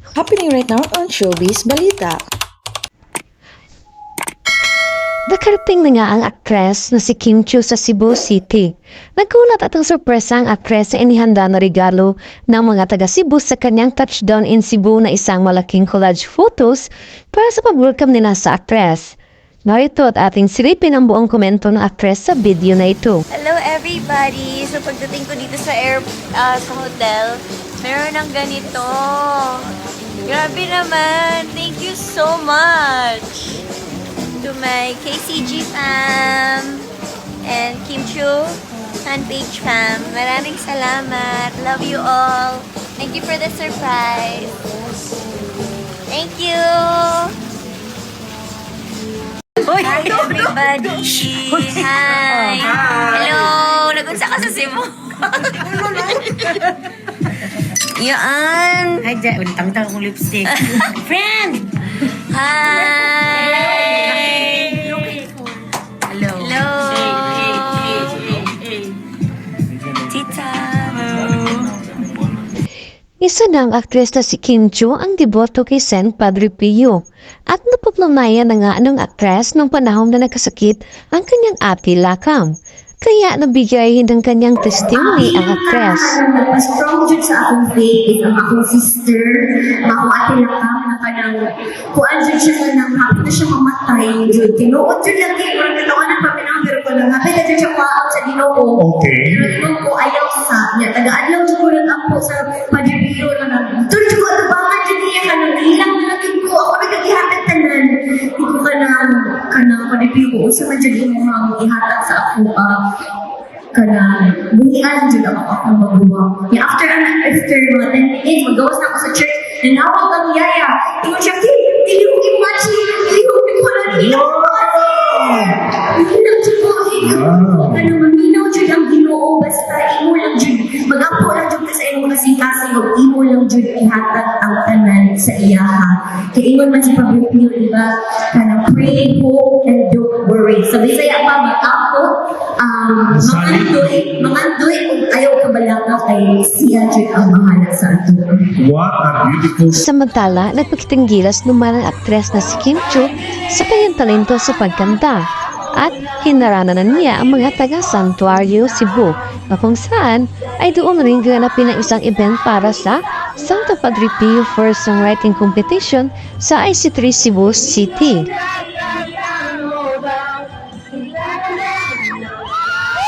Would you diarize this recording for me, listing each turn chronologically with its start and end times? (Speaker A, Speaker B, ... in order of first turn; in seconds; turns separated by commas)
Speaker A: 0.1-2.2, Speaker B: 5.3-23.2, Speaker C: 23.3-29.7, Speaker C: 30.2-33.6, Speaker C: 34.4-36.9, Speaker C: 37.4-44.5, Speaker C: 46.1-47.4, Speaker D: 49.6-50.5, Speaker C: 49.7-56.2, Speaker D: 51.5-53.4, Speaker D: 55.8-56.1, Speaker C: 58.0-59.1, Speaker D: 59.0-61.7, Speaker C: 60.5-60.9, Speaker C: 62.3-65.1, Speaker D: 63.6-64.4, Speaker D: 66.1-68.2, Speaker C: 66.3-68.6, Speaker C: 70.1-71.7, Speaker B: 73.2-86.2, Speaker E: 84.9-112.9, Speaker F: 98.8-99.6, Speaker E: 113.7-148.6, Speaker F: 123.9-125.6, Speaker F: 127.0-128.0, Speaker F: 143.1-143.9, Speaker F: 148.6-149.9, Speaker B: 149.7-168.3